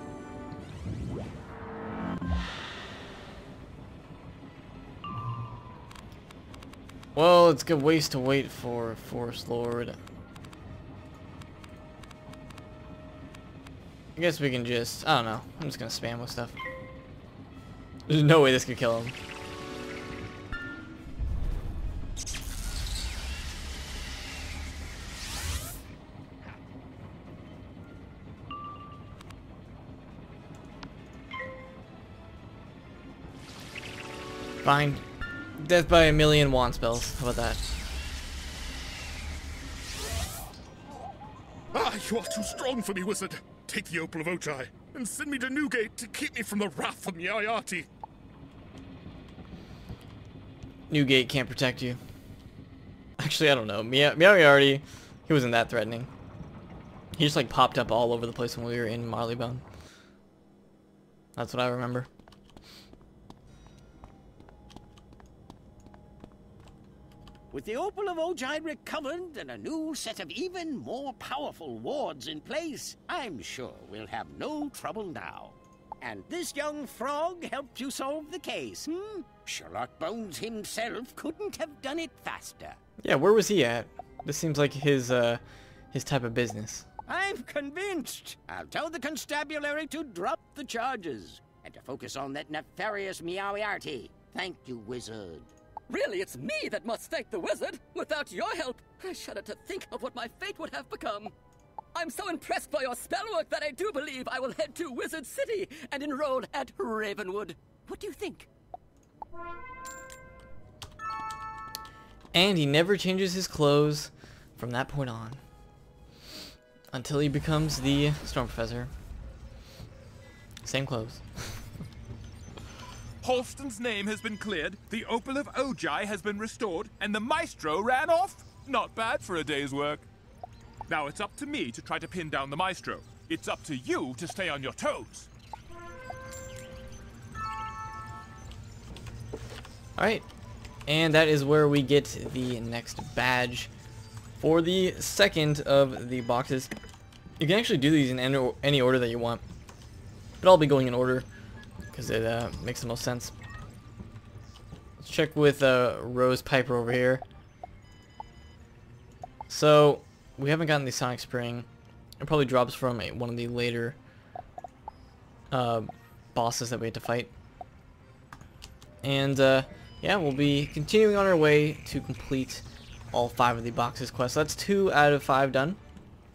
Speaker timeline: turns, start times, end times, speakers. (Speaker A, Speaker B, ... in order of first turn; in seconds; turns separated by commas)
Speaker A: 7.1-10.0, Speaker A: 14.2-16.6, Speaker A: 18.1-19.1, Speaker A: 34.6-35.0, Speaker A: 35.6-37.6, Speaker B: 41.7-47.9, Speaker A: 50.9-52.0, Speaker A: 53.2-56.1, Speaker A: 57.1-59.6, Speaker A: 61.4-62.1, Speaker C: 67.5-82.8, Speaker A: 83.0-86.9, Speaker C: 87.1-95.5, Speaker D: 95.9-101.3, Speaker D: 101.9-108.5, Speaker A: 112.3-115.4, Speaker A: 116.9-118.9, Speaker A: 120.6-121.6, Speaker E: 123.2-130.1, Speaker E: 130.9-135.3, Speaker A: 140.0-140.2, Speaker A: 140.9-143.7, Speaker A: 144.4-146.7, Speaker A: 147.4-149.4, Speaker A: 150.4-151.3, Speaker A: 151.9-153.3, Speaker A: 155.0-157.2, Speaker A: 159.5-161.7, Speaker A: 162.2-164.0, Speaker A: 165.5-167.3, Speaker A: 169.0-175.8